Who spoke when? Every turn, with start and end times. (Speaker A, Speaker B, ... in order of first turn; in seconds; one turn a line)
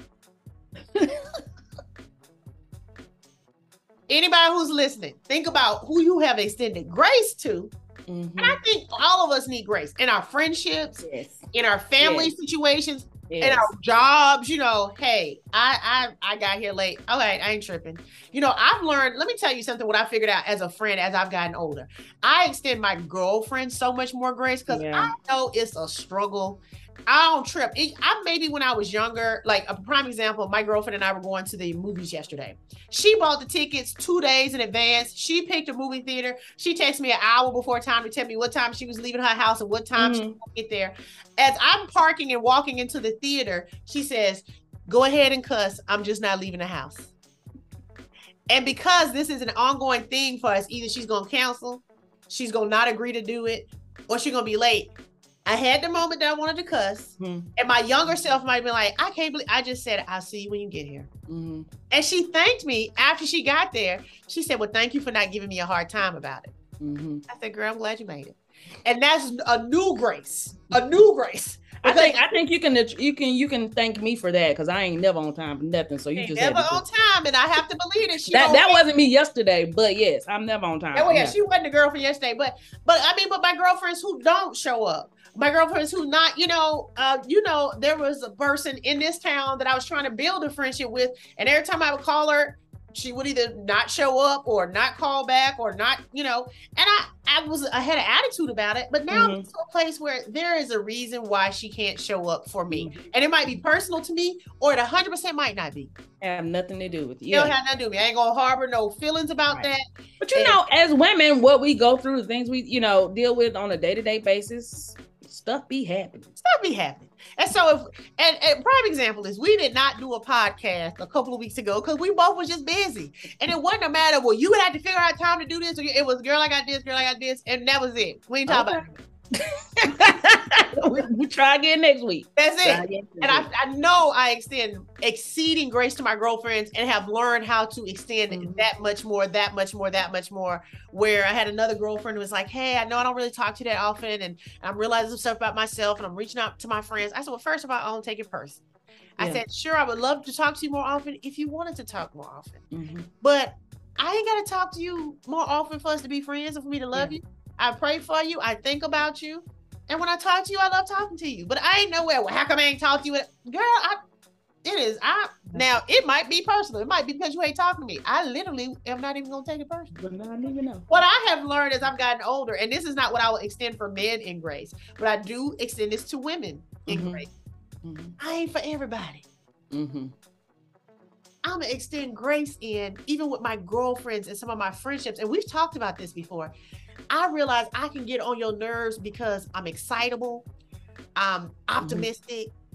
Speaker A: 0.9-1.2
Speaker B: 4.1-7.7
Speaker A: 8.1-8.6
Speaker B: 8.4-47.1
Speaker A: 11.0-11.5
Speaker A: 12.0-12.3
Speaker A: 13.3-13.7
Speaker A: 24.7-25.1
Speaker A: 40.0-40.4
Speaker B: 48.5-54.9
Speaker B: 55.5-61.1
Speaker A: 57.2-57.5
Speaker A: 61.3-61.7
Speaker B: 61.9-66.5
Speaker A: 66.8-67.2
Speaker B: 67.3-72.2
Speaker A: 71.8-76.8
Speaker B: 76.2-78.8
Speaker A: 78.3-81.4
Speaker B: 81.0-105.9
Speaker A: 99.1-99.5
Speaker A: 102.7-103.1
Speaker A: 106.2-107.5
Speaker B: 107.3-110.6
Speaker A: 110.2-116.3
Speaker B: 116.4-128.9
Speaker A: 128.5-133.5
Speaker B: 132.4-148.6
Speaker A: 138.3-138.7
Speaker B: 149.2-152.6
Speaker A: 152.7-153.1
Speaker B: 153.2-164.0
Speaker B: 164.6-169.9
Speaker A: 169.9-170.9
Speaker B: 170.9-177.3
Speaker A: 176.9-177.2
Speaker A: 177.8-178.2
Speaker B: 178.2-179.2
Speaker A: 179.7-180.1
Speaker B: 181.4-186.5
Speaker B: 187.1-190.5
Speaker B: 191.2-192.5
Speaker A: 191.8-192.1